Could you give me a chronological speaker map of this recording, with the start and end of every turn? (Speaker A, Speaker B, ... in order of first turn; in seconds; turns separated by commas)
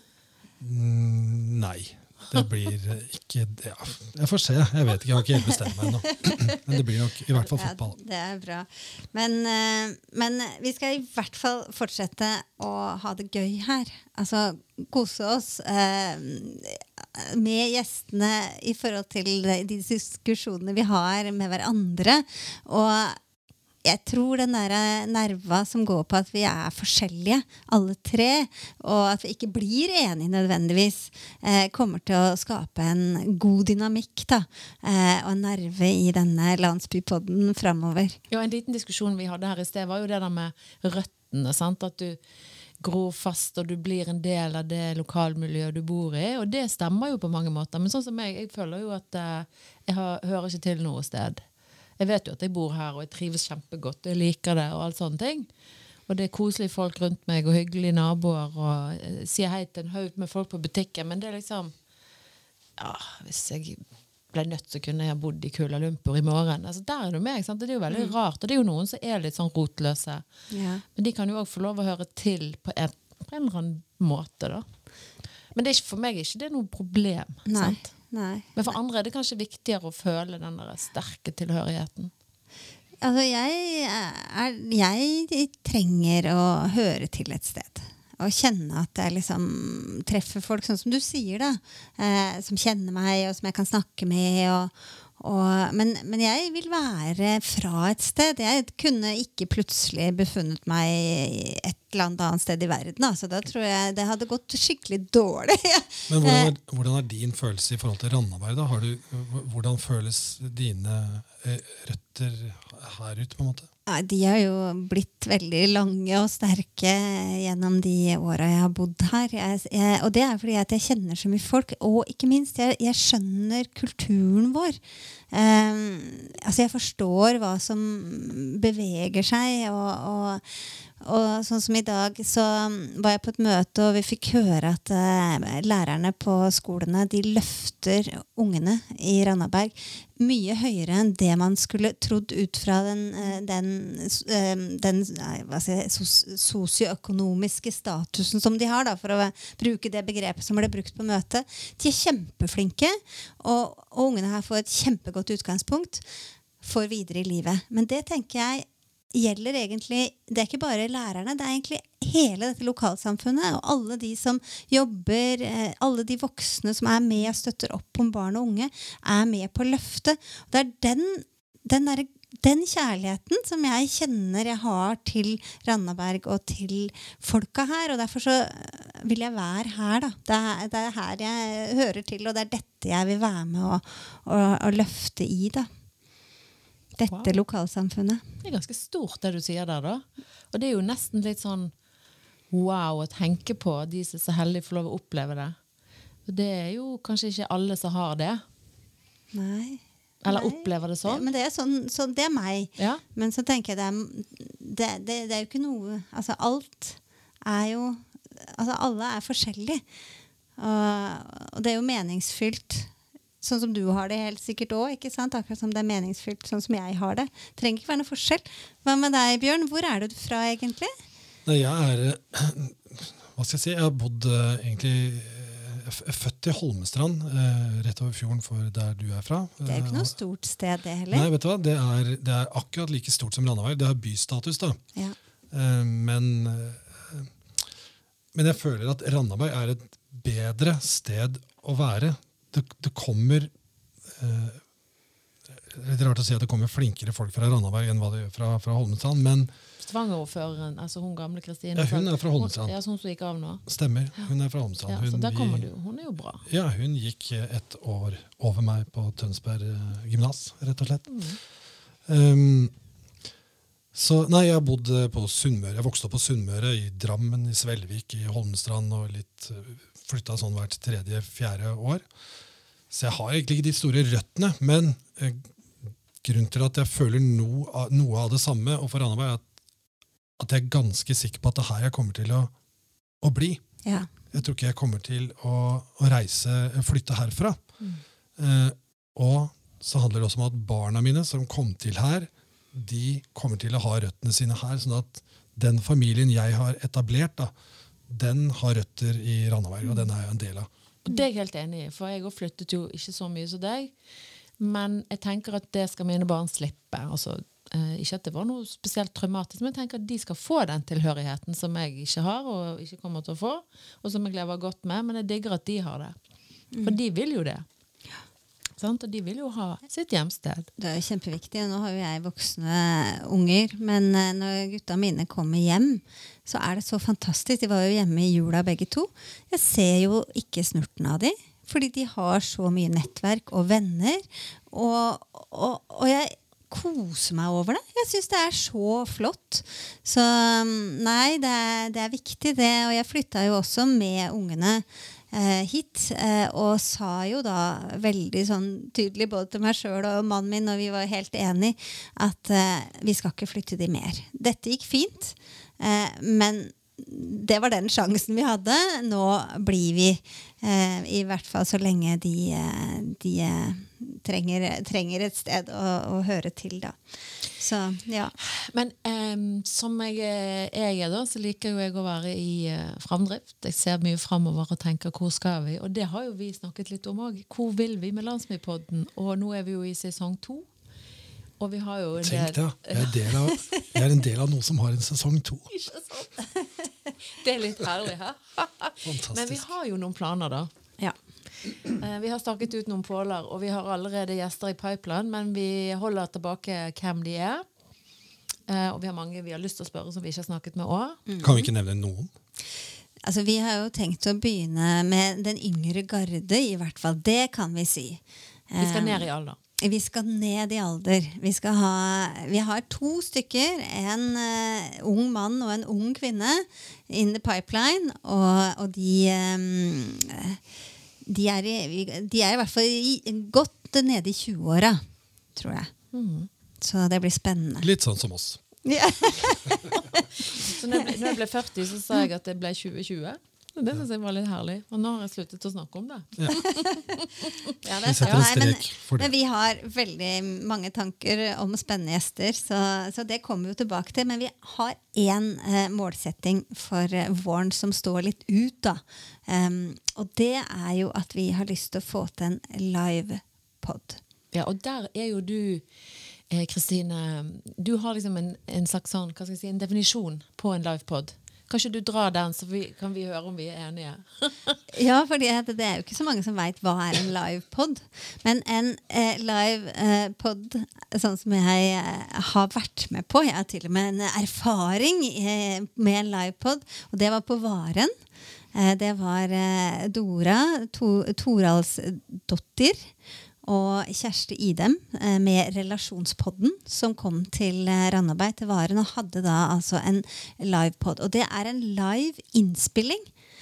Speaker A: 0.6-8.0, Speaker B: 6.2-6.6, Speaker B: 7.4-23.2, Speaker B: 23.8-38.2, Speaker C: 38.3-42.2, Speaker C: 42.8-51.4, Speaker C: 52.0-55.5, Speaker C: 56.1-61.7, Speaker C: 62.8-70.2, Speaker B: 70.5-70.8, Speaker C: 71.0-74.6, Speaker C: 75.5-77.9, Speaker B: 77.5-78.5, Speaker C: 78.5-82.1, Speaker B: 83.0-106.5, Speaker A: 106.1-113.7, Speaker B: 113.9-124.8, Speaker B: 125.3-156.1, Speaker B: 156.6-185.7, Speaker B: 186.9-188.2, Speaker C: 187.1-187.4, Speaker C: 188.4-191.7, Speaker C: 192.5-195.6, Speaker C: 196.3-198.4, Speaker B: 199.3-209.8, Speaker C: 200.2-201.2, Speaker C: 202.8-203.0, Speaker B: 210.6-220.9, Speaker A: 221.4-230.1, Speaker B: 229.6-231.3, Speaker A: 231.1-234.8, Speaker A: 235.5-237.3, Speaker A: 238.3-243.5, Speaker A: 244.1-244.6, Speaker A: 245.5-249.5, Speaker C: 249.8-253.6, Speaker A: 251.8-252.8, Speaker A: 253.7-255.7, Speaker C: 254.9-256.4, Speaker A: 256.4-261.2, Speaker C: 261.1-261.4, Speaker A: 262.1-262.7, Speaker A: 263.9-272.1, Speaker A: 272.9-275.5, Speaker A: 276.2-279.4, Speaker A: 280.4-282.5, Speaker A: 283.2-283.6, Speaker A: 284.3-287.6, Speaker A: 288.4-297.5, Speaker A: 298.1-300.7, Speaker C: 301.1-303.9, Speaker C: 304.6-316.1, Speaker C: 316.8-317.6, Speaker C: 318.8-320.7, Speaker B: 320.8-367.0, Speaker B: 367.6-368.3, Speaker C: 368.6-380.7, Speaker C: 381.6-383.5, Speaker A: 382.2-385.7, Speaker C: 385.7-386.4, Speaker C: 387.3-390.7, Speaker A: 389.0-389.7, Speaker C: 391.9-397.6, Speaker C: 398.7-401.2, Speaker B: 401.3-401.7, Speaker A: 401.4-402.3, Speaker B: 403.2-409.3, Speaker C: 408.8-409.6, Speaker B: 409.8-420.6, Speaker B: 421.2-425.0, Speaker B: 425.6-425.9, Speaker C: 426.1-426.5, Speaker B: 426.8-427.9, Speaker A: 427.8-428.6, Speaker B: 428.8-431.3, Speaker C: 430.6-437.1, Speaker B: 437.8-454.2, Speaker A: 438.0-439.3, Speaker C: 454.5-455.8, Speaker C: 456.5-464.8, Speaker B: 464.9-478.1, Speaker B: 478.7-483.1, Speaker B: 483.6-493.3